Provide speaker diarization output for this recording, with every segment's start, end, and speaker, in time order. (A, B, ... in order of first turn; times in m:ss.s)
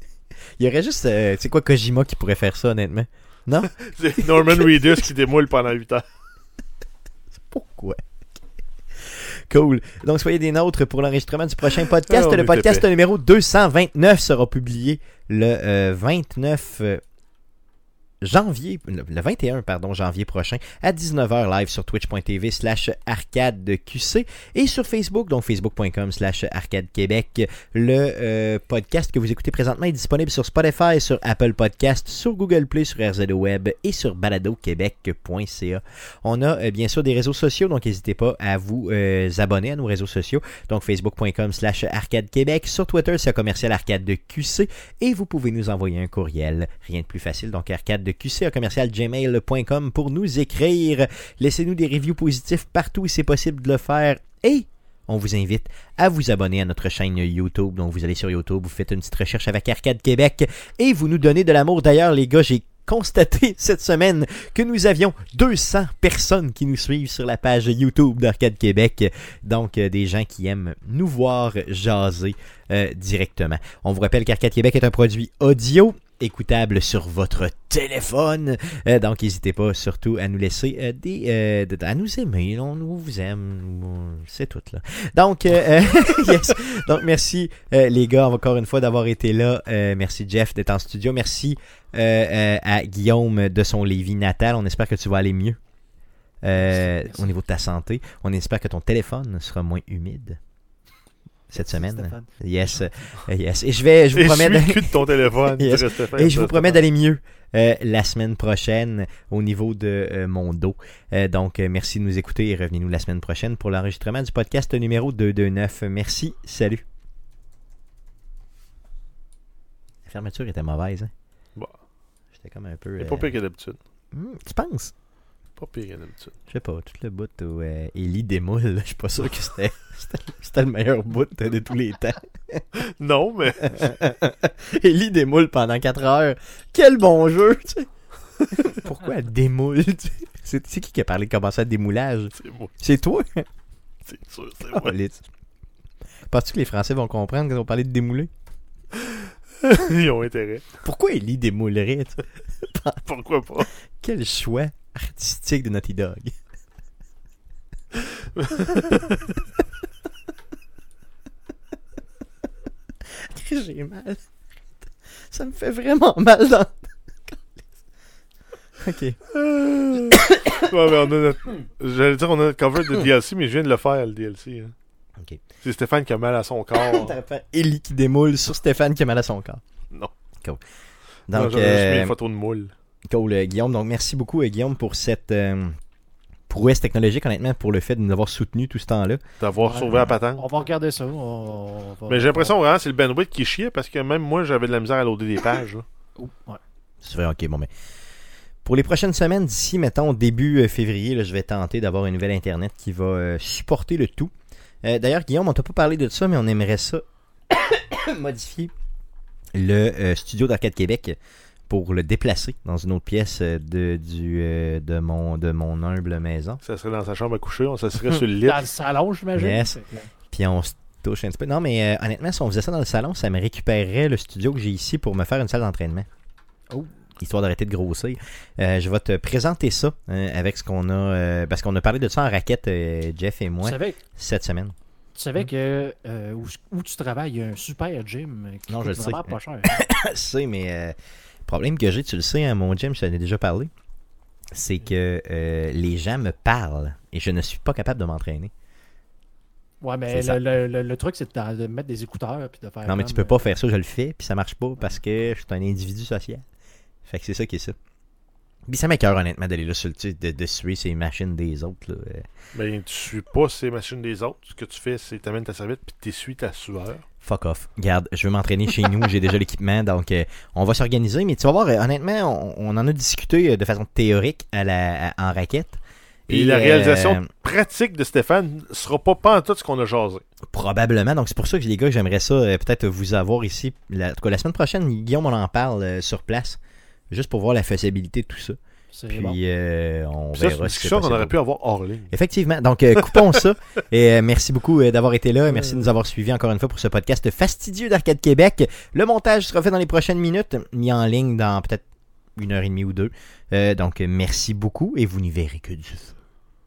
0:00.6-0:04.8 A
0:03.8-0:06.0 B
0:07.4-0:08.0 A
0:09.0-0:17.0 A
0:11.8-0:12.8 B
0:18.2-1:35.6 A
1:36.4-1:40.4 A
1:36.6-1:37.3 C
1:41.5-1:56.8 A
1:41.5-1:43.1 C
1:44.1-1:46.9 B
2:00.1-2:01.1 A
2:02.4-2:03.4 A
2:03.0-2:03.8 B
2:04.1-2:04.9 A
2:05.6-2:06.4 B
2:06.5-2:12.7 A
2:12.8-2:13.9 B
2:13.6-2:17.9 A
2:18.5-2:23.5 A
2:22.4-2:22.7 B
2:24.1-2:25.0 B
2:24.7-2:25.2 A
2:26.3-2:28.3 A
2:29.0-2:30.7 B
2:30.8-2:33.0 A
2:33.1-2:33.7 B
2:34.0-2:36.3 A
2:38.0-2:39.1 B
2:43.2-2:44.2 A
2:45.3-2:47.4 A
2:48.8-2:49.2 A
2:49.3-2:54.7 B
2:55.6-2:57.2 B
2:56.7-2:59.6 A
3:01.3-3:02.2 A
3:01.3-3:02.7 B
3:03.1-3:05.8 A
3:06.5-3:09.2 A
3:09.4-3:10.4 B
3:09.6-3:12.6 C
3:12.1-3:15.8 B
3:16.2-3:16.6 C
3:17.0-3:17.7 A
3:18.6-3:24.3 A
3:24.8-3:28.7 A
3:29.6-3:31.2 A
3:31.7-3:36.6 A
3:36.6-3:38.7 B
3:38.4-3:40.1 C
3:39.4-3:39.8 A
3:40.3-3:46.1 A
3:47.2-3:54.7 A
3:53.6-3:54.0 C
3:55.2-3:59.7 C
3:58.7-4:01.0 A
4:01.5-4:03.7 A
4:04.5-4:08.5 A
4:09.8-4:13.4 C
4:10.1-4:10.4 A
4:12.9-4:16.4 A
4:17.1-4:17.8 A
4:18.7-4:22.3 A
4:22.5-4:27.0 B
4:27.2-4:37.3 A
4:36.3-4:40.2 B
4:40.5-4:46.6 A
4:47.1-4:48.6 A
4:48.9-4:49.4 C
4:49.1-4:51.4 A
4:50.4-4:52.1 B
4:52.1-5:01.8 A
4:53.0-4:53.4 B
5:02.4-5:06.2 A